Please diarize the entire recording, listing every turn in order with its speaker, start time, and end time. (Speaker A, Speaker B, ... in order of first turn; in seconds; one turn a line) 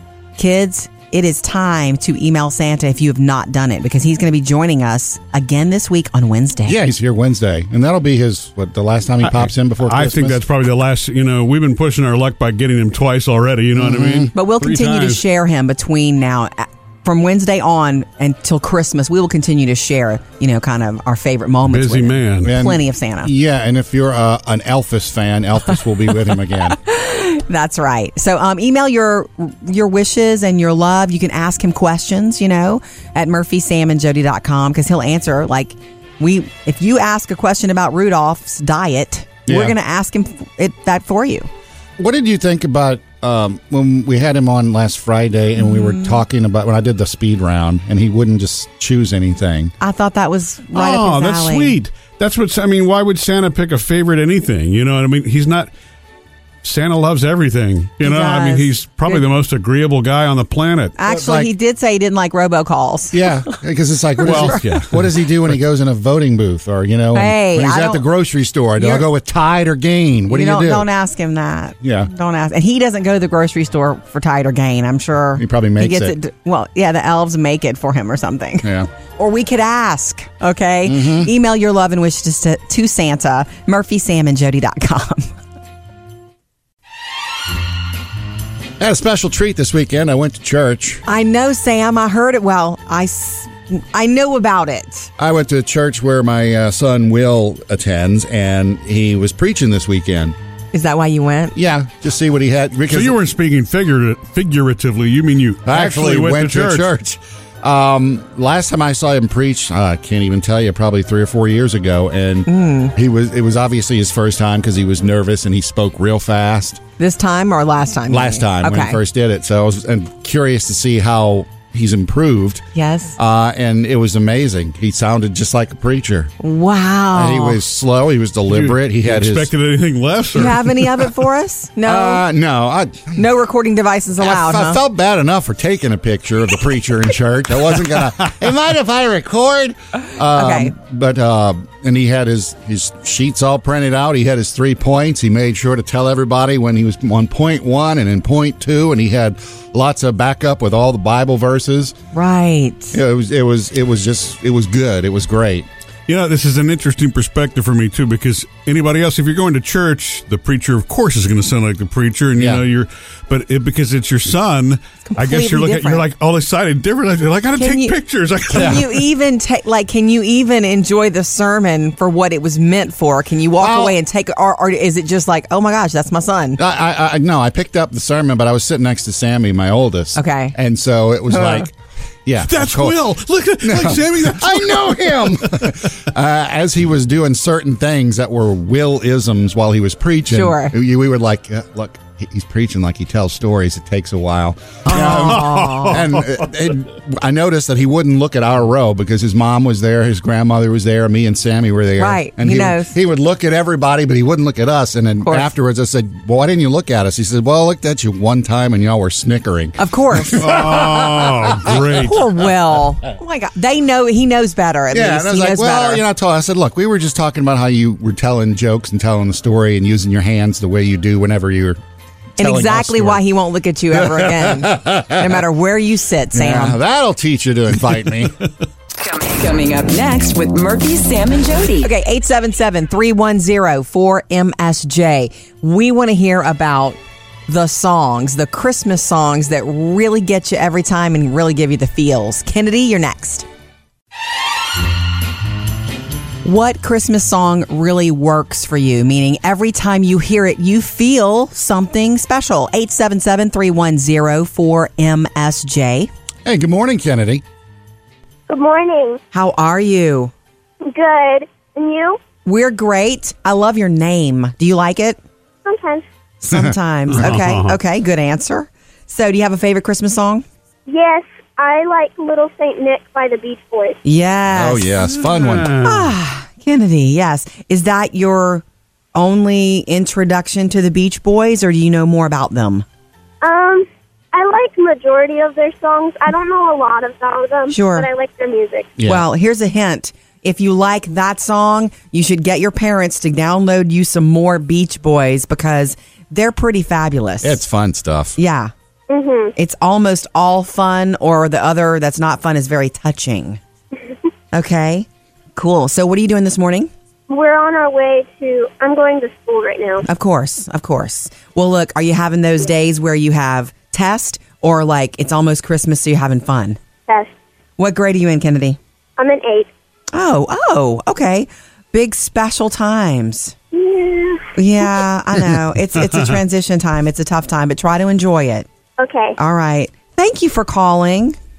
Speaker A: 0.4-6.8
Speaker B: 6.7-10.4
Speaker C: 9.2-15.2
Speaker B: 13.8-14.3
Speaker A: 14.3-23.3
Speaker C: 21.7-22.5
Speaker B: 22.4-26.8
Speaker A: 26.6-41.5
Speaker B: 39.5-39.8
Speaker B: 42.0-49.7
Speaker A: 45.6-46.2
Speaker A: 49.8-51.8
Speaker C: 50.7-55.7
Speaker C: 56.6-61.0
Speaker A: 58.0-59.2
Speaker A: 61.0-63.6
Speaker B: 61.1-61.5
Speaker B: 63.1-70.9
Speaker A: 64.2-64.6
Speaker C: 64.2-65.0
Speaker A: 67.1-68.0
Speaker A: 68.8-69.1
Speaker A: 70.3-85.3
Speaker B: 71.8-72.1
Speaker B: 75.4-76.2
Speaker B: 78.6-78.9
Speaker B: 80.8-81.3
Speaker B: 88.8-91.0
Speaker A: 91.1-95.1
Speaker B: 95.2-100.3
Speaker A: 100.7-101.6
Speaker B: 101.5-103.2
Speaker C: 102.9-106.9
Speaker B: 105.7-116.8
Speaker A: 112.5-112.9
Speaker A: 117.0-119.0
Speaker B: 118.1-122.7
Speaker A: 122.8-123.2
Speaker B: 123.2-126.3
Speaker A: 126.4-127.6
Speaker B: 127.1-129.5
Speaker C: 128.5-130.9
Speaker A: 130.3-132.2
Speaker B: 131.8-133.2
Speaker A: 133.2-134.8
Speaker B: 134.2-152.0
Speaker A: 140.1-140.7
Speaker A: 152.1-153.0
Speaker B: 152.9-155.7
Speaker C: 156.1-168.9
Speaker B: 162.4-162.6
Speaker A: 165.1-166.0
Speaker A: 167.6-168.0
Speaker A: 168.5-176.6
Speaker B: 168.6-168.8
Speaker B: 173.6-174.0
Speaker B: 176.6-181.7
Speaker A: 180.2-180.6
Speaker A: 181.3-181.7
Speaker B: 182.2-183.0
Speaker C: 182.4-185.6
Speaker B: 183.6-212.1
Speaker A: 190.3-190.8
Speaker A: 194.8-196.0
Speaker C: 195.3-196.1
Speaker A: 202.0-202.9
Speaker A: 205.2-205.5
Speaker A: 209.8-210.5
Speaker C: 210.4-212.2
Speaker A: 212.0-216.0
Speaker B: 214.9-221.8
Speaker B: 222.4-223.3
Speaker A: 222.4-226.8
Speaker B: 223.9-225.4
Speaker B: 226.3-228.3
Speaker D: 229.0-231.9
Speaker A: 231.8-243.5
Speaker A: 246.4-256.1
Speaker B: 256.4-257.4
Speaker E: 258.5-259.2
Speaker A: 259.3-260.3
Speaker E: 260.9-262.2
Speaker A: 262.4-265.2
Speaker E: 265.6-266.1
Speaker A: 266.4-270.4
Speaker B: 266.5-267.3
Speaker C: 267.1-267.8
Speaker E: 270.9-274.0
Speaker A: 274.1-278.6
Speaker B: 274.5-275.8
Speaker C: 275.4-276.0
Speaker A: 279.1-282.9
Speaker E: 283.4-288.9
Speaker A: 287.7-288.1
Speaker B: 289.0-289.2
Speaker A: 289.0-297.6
Speaker B: 297.4-298.4
Speaker A: 298.4-298.7
Speaker E: 299.1-299.5
Speaker A: 299.6-303.6
Speaker A: 304.5-306.9
Speaker E: 307.3-310.1
Speaker A: 310.1-316.8
Speaker A: 317.8-318.8
Speaker E: 319.2-319.7
Speaker A: 320.1-323.5
Speaker E: 323.7-324.5
Speaker A: 324.6-328.7
Speaker E: 329.0-329.4
Speaker A: 329.4-331.4